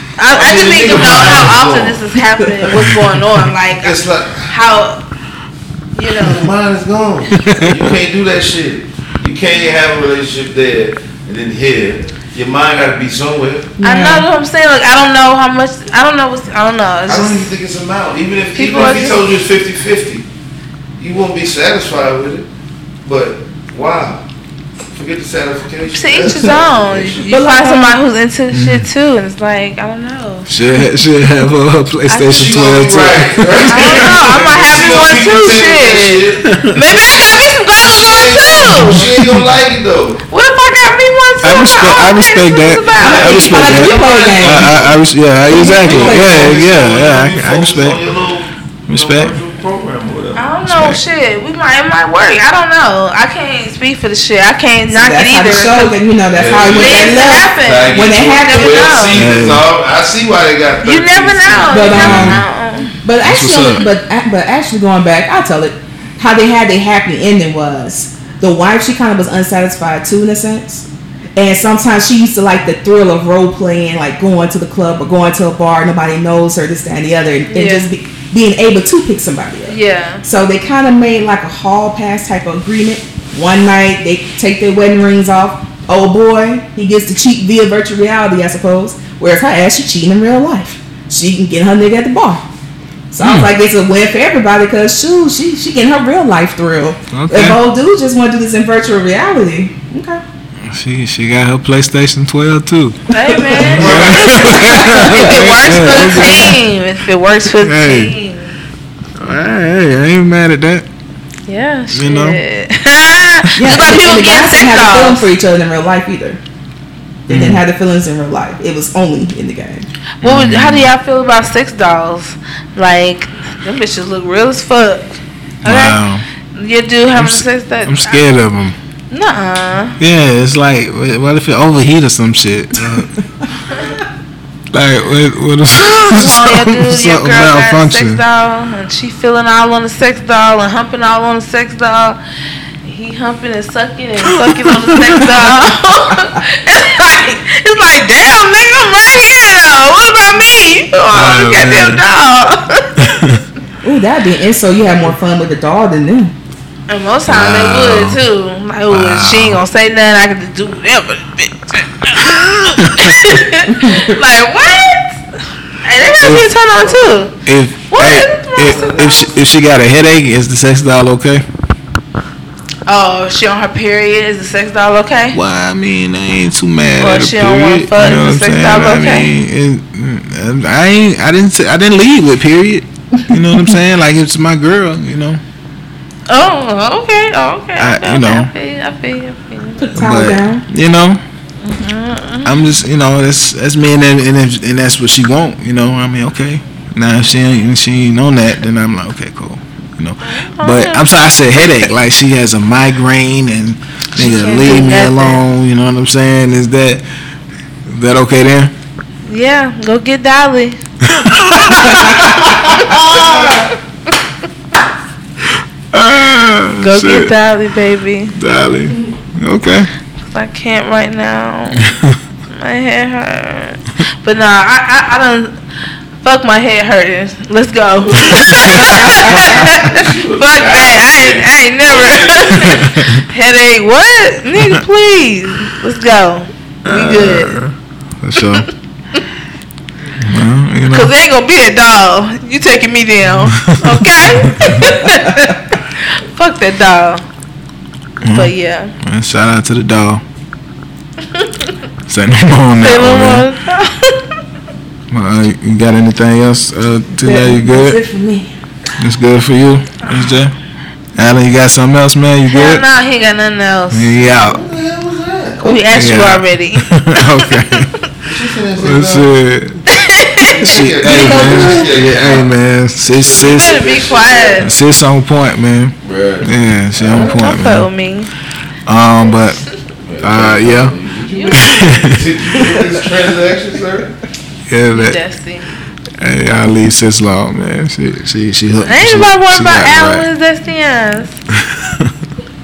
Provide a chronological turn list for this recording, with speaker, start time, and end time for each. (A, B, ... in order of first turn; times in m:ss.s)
0:00.2-0:05.0 A
0:00.3-0:02.0 B
0:03.7-0:04.5 B
0:05.9-0:06.5 A
0:06.2-0:13.8 B
0:07.4-0:07.9 C
0:13.8-0:14.3 D
0:13.8-0:17.5 A
0:17.1-0:20.3 B
0:18.5-0:19.3 A
0:21.0-0:22.5 B
0:23.0-0:24.2 B
0:24.9-0:27.3 B
0:25.9-0:30.5 A
0:27.3-0:28.0 D
0:28.5-0:28.9 C
0:30.5-0:35.0 C
0:32.1-0:32.6 A
0:32.2-0:36.7 B
0:33.6-0:39.1 A
0:36.4-0:36.8 C
0:37.8-0:40.2 B
0:38.6-0:39.5 C
0:40.3-0:43.5 A
0:41.4-0:48.0 C
0:43.0-0:50.6 B
0:43.0-0:44.8 D
0:45.5-0:46.5 D
0:48.9-0:49.3 C
0:50.4-0:55.9 A
0:50.7-0:51.0 C
0:54.9-0:58.9 D
0:56.3-1:02.2 B
0:56.5-0:59.2 A
0:59.1-0:59.7 C
1:00.8-1:03.0 A
1:01.7-1:02.4 D
1:01.9-1:02.4 C
1:03.0-1:32.4 D
1:03.2-1:03.9 C
1:17.5-1:17.9 A
1:19.7-1:20.2 A
1:33.1-1:40.2 D
1:33.2-1:33.5 C
1:37.1-1:37.6 C
1:40.6-1:43.0 C
1:43.1-1:48.6 A
1:43.3-1:43.8 D
1:43.6-1:46.6 C
1:43.6-1:44.8 B
1:44.3-1:46.5 D
1:47.6-1:48.2 C
1:49.2-1:50.9 C
1:51.5-1:55.3 A
1:51.9-1:52.4 C
1:53.6-1:56.4 D
1:57.3-1:59.9 D
1:57.3-1:57.6 C
2:00.2-2:06.0 A
2:00.2-2:00.9 C
2:05.6-2:06.2 C
2:06.5-2:08.2 A
2:07.1-2:08.8 C
2:09.1-2:10.0 A
2:10.0-2:13.2 C
2:14.7-2:18.2 C
2:15.8-2:22.2 A
2:22.8-2:33.0 A
2:24.3-2:25.2 C
2:31.1-2:32.0 C
2:33.0-2:33.4 C
2:33.8-2:36.3 D
2:36.9-2:45.2 A
2:37.3-2:38.2 C
2:38.9-2:39.6 C
2:42.8-2:43.4 C
2:43.7-2:44.2 D
2:45.8-2:47.4 A
2:46.2-2:46.5 C
2:47.4-2:51.4 C
2:47.9-2:49.3 A
2:48.6-2:49.4 B
2:52.9-2:55.4 A
2:55.3-3:05.4 C
2:57.0-2:59.3 A
3:06.3-3:10.0 A
3:07.8-3:08.5 C
3:09.8-3:10.6 D
3:10.0-3:11.2 C
3:11.6-3:12.7 A
3:12.4-3:27.0 C
3:20.3-3:21.1 A
3:24.2-3:25.4 A
3:27.9-3:28.7 C
3:29.3-3:30.8 A
3:31.0-3:33.4 C
3:31.8-3:32.4 D
3:32.6-3:33.8 A
3:35.9-3:37.3 C
3:36.8-3:38.4 A
3:38.3-3:39.9 C
3:40.3-3:41.9 A
3:41.8-3:42.2 C
3:42.5-3:45.6 A
3:46.2-3:57.6 A
3:48.2-3:49.4 C
3:49.0-3:52.9 B
3:52.6-3:53.2 C
3:56.8-3:58.7 C
4:00.1-4:01.1 C
4:00.9-4:07.2 A
4:03.5-4:04.9 C
4:08.2-4:10.2 C
4:08.3-4:08.9 A
4:11.4-4:11.7 A
4:12.1-4:13.5 C
4:12.8-4:14.2 A
4:15.1-4:18.0 C
4:17.2-4:18.5 D
4:19.0-4:20.6 C
4:21.2-4:22.8 C
4:22.5-4:24.2 A
4:23.9-4:24.6 C
4:24.2-4:25.9 B
4:25.6-4:27.9 A
4:25.9-4:27.9 C
4:28.2-4:29.3 B
4:28.8-4:29.8 C
4:29.9-4:30.8 A
4:30.4-4:32.5 B
4:30.6-4:33.9 C
4:31.0-4:31.9 D
4:33.1-4:34.7 B
4:33.3-4:34.7 A
4:34.6-4:37.9 C
4:36.0-4:37.5 B
4:37.1-4:38.3 A
4:38.9-4:39.6 C
4:40.1-4:44.2 B
4:40.2-4:41.0 C
4:41.3-4:42.2 A
4:41.5-4:42.3 C
4:44.7-4:45.2 C
4:44.9-4:45.7 A
4:46.2-4:50.3 C
4:48.8-4:51.4 A
4:51.6-4:52.1 C